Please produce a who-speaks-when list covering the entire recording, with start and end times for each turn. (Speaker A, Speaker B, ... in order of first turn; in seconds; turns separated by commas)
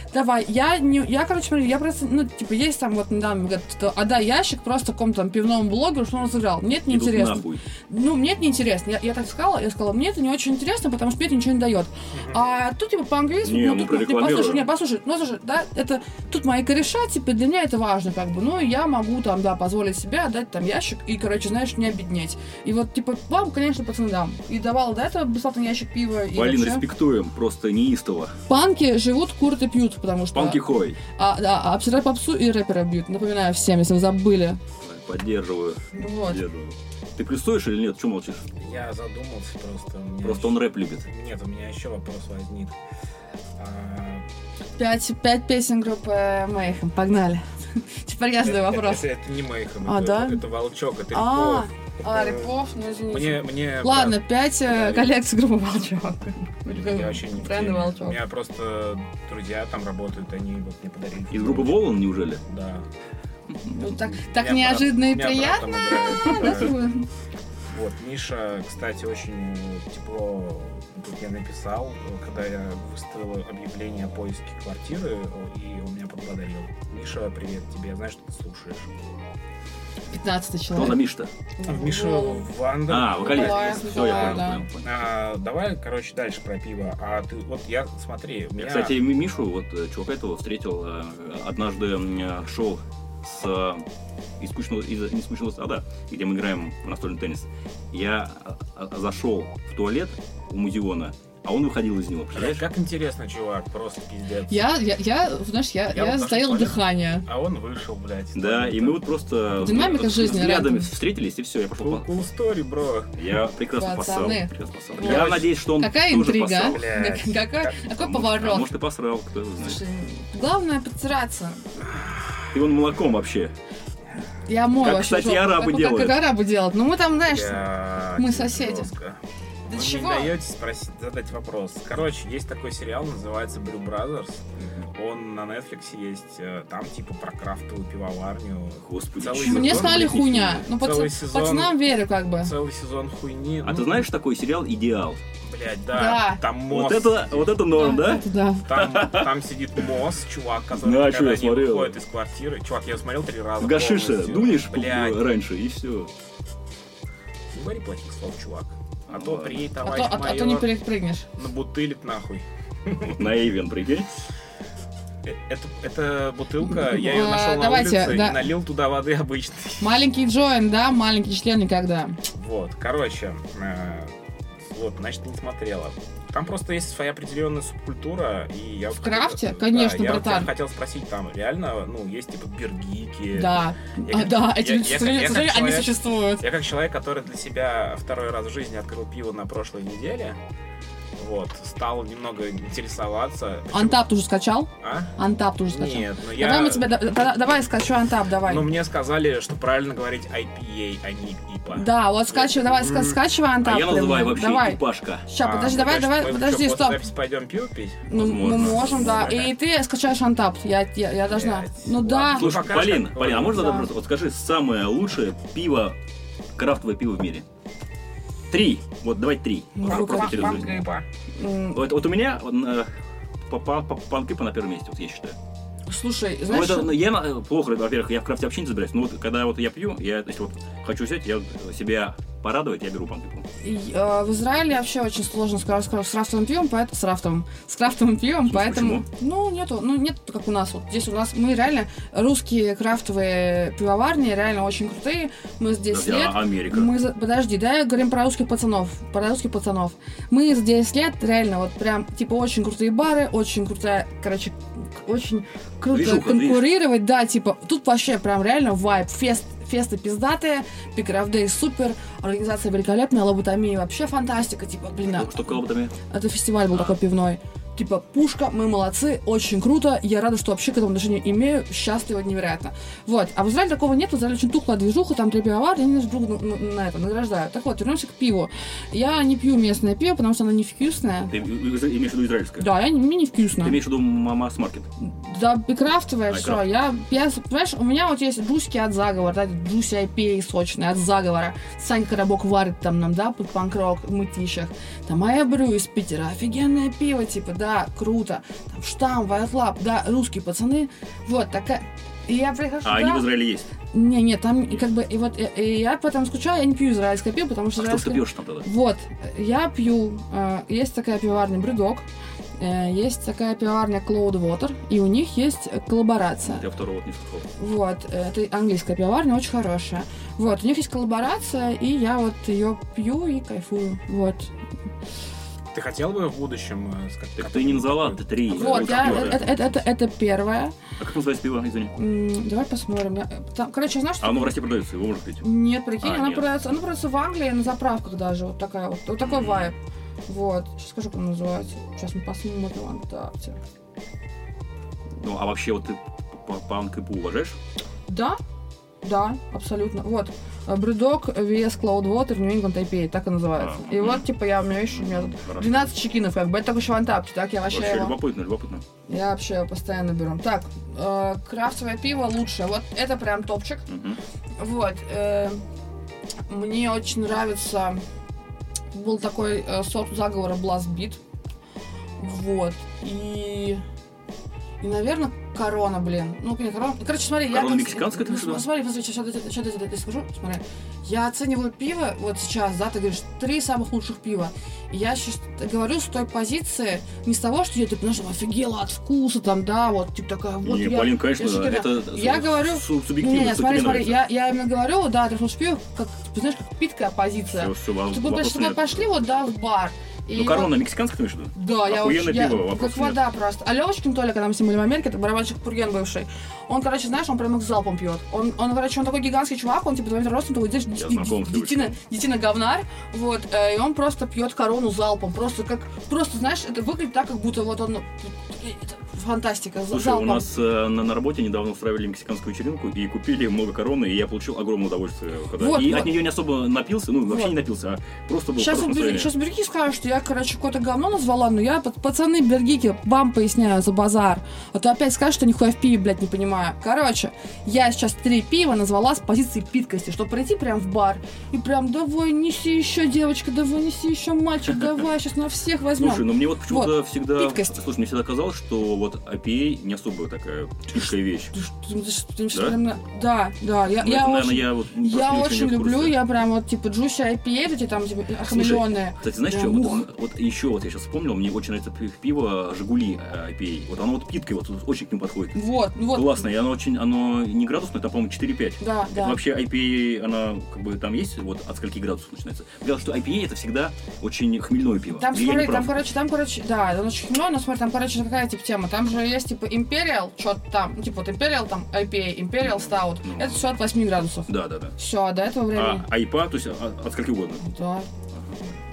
Speaker A: 0.1-26.8, Speaker B: 6.9-7.6, Speaker C: 12.1-12.4, Speaker B: 13.4-14.7, Speaker B: 26.3-28.3, Speaker A: 28.5-30.6, Speaker B: 30.3-31.0, Speaker A: 31.1-34.6, Speaker B: 34.8-38.4, Speaker A: 35.9-36.4, Speaker C: 38.5-42.8, Speaker B: 40.2-41.0, Speaker C: 43.6-44.2, Speaker A: 44.8-49.0, Speaker C: 48.4-52.5, Speaker A: 49.8-50.4, Speaker A: 51.1-58.2, Speaker C: 53.1-55.1, Speaker C: 56.7-61.9, Speaker B: 61.3-62.4, Speaker C: 62.4-62.9, Speaker A: 63.6-67.1, Speaker C: 63.7-66.8, Speaker C: 67.7-78.9, Speaker A: 80.1-81.0, Speaker B: 80.7-81.3, Speaker A: 81.6-82.5, Speaker C: 81.6-89.0, Speaker B: 82.9-84.9, Speaker A: 83.2-84.6, Speaker B: 88.6-93.8, Speaker B: 94.4-102.7, Speaker C: 102.3-104.7, Speaker A: 104.5-107.2, Speaker C: 105.9-109.2, Speaker B: 108.3-112.1, Speaker A: 109.6-110.9, Speaker C: 111.8-113.1, Speaker B: 113.1-116.8, Speaker A: 113.7-118.7, Speaker C: 115.0-115.5, Speaker C: 116.7-117.8, Speaker B: 118.0-119.8, Speaker A: 119.6-121.8, Speaker B: 122.5-123.5, Speaker A: 124.4-127.6, Speaker B: 124.8-126.2, Speaker C: 127.2-129.2, Speaker A: 128.2-128.9, Speaker A: 129.7-130.3, Speaker C: 129.7-141.8, Speaker B: 138.8-140.6, Speaker A: 139.4-142.5, Speaker C: 142.4-144.1, Speaker B: 143.6-145.2, Speaker C: 145.4-147.6, Speaker A: 145.9-146.4, Speaker B: 146.7-149.3, Speaker A: 147.7-148.6, Speaker C: 148.6-155.2, Speaker B: 150.8-152.0, Speaker B: 153.6-156.1, Speaker C: 157.5-160.7, Speaker B: 159.1-159.7, Speaker A: 159.8-161.3, Speaker C: 161.3-163.3, Speaker B: 163.1-164.1, Speaker C: 165.2-169.9, Speaker A: 166.7-168.5, Speaker A: 169.8-172.2, Speaker C: 172.3-190.4, Speaker A: 179.0-180.5, Speaker A: 183.3-186.4, Speaker C: 191.2-194.0, Speaker A: 193.7-198.7, Speaker C: 194.8-196.9, Speaker C: 198.4-203.2, Speaker A: 201.7-207.1, Speaker B: 203.6-205.2, Speaker C: 205.4-209.5, Speaker A: 208.1-212.6, Speaker B: 208.1-209.5, Speaker C: 211.3-213.7, Speaker B: 212.3-216.0, Speaker A: 213.4-213.9, Speaker B: 216.6-217.4, Speaker B: 218.5-220.8, Speaker C: 219.8-221.0, Speaker A: 219.8-220.7, Speaker A: 221.4-221.8, Speaker B: 221.7-222.9, Speaker B: 223.5-225.3, Speaker A: 225.9-226.9, Speaker B: 226.5-233.4, Speaker A: 233.6-265.5, Speaker B: 238.4-239.0, Speaker B: 245.9-246.9, Speaker B: 255.9-256.7, Speaker B: 265.1-265.9, Speaker A: 266.1-281.3, Speaker B: 281.3-282.7, Speaker A: 282.6-283.8, Speaker B: 283.6-284.9, Speaker A: 285.0-303.3, Speaker B: 286.3-286.6, Speaker B: 302.8-303.7, Speaker A: 303.9-312.1, Speaker B: 307.8-308.7, Speaker A: 312.6-316.6, Speaker B: 316.4-317.5, Speaker A: 317.6-324.5, Speaker C: 325.7-329.8, Speaker B: 327.4-329.5, Speaker A: 328.5-330.8, Speaker B: 331.0-331.9, Speaker A: 331.9-334.6, Speaker B: 334.2-335.4, Speaker A: 335.4-339.8, Speaker B: 336.0-336.4, Speaker B: 339.2-339.7, Speaker A: 340.3-343.6, Speaker B: 345.2-347.6, Speaker A: 348.1-348.4, Speaker A: 349.0-358.1, Speaker B: 353.6-354.2, Speaker B: 354.9-355.8, Speaker B: 357.7-358.8, Speaker A: 359.1-363.9, Speaker B: 363.9-364.2, Speaker A: 364.6-365.6, Speaker A: 366.5-368.0, Speaker A: 368.9-371.2, Speaker A: 372.2-373.8, Speaker A: 374.8-400.7, Speaker B: 377.5-378.6, Speaker B: 390.6-394.2, Speaker B: 397.5-399.1, Speaker B: 400.3-403.2, Speaker A: 401.5-420.5, Speaker B: 410.9-411.9, Speaker B: 419.9-429.3, Speaker A: 425.6-426.1, Speaker A: 427.3-427.5, Speaker A: 428.6-447.7, Speaker B: 446.0-451.5, Speaker A: 450.9-460.0, Speaker B: 452.5-452.8, Speaker B: 454.0-456.2, Speaker B: 458.5-465.6, Speaker A: 465.5-466.4, Speaker B: 466.1-476.0, Speaker A: 468.8-469.4, Speaker A: 475.1-486.1, Speaker B: 482.6-483.6, Speaker B: 484.5-484.9, Speaker B: 485.7-487.6, Speaker A: 487.6-488.1, Speaker B: 488.3-488.6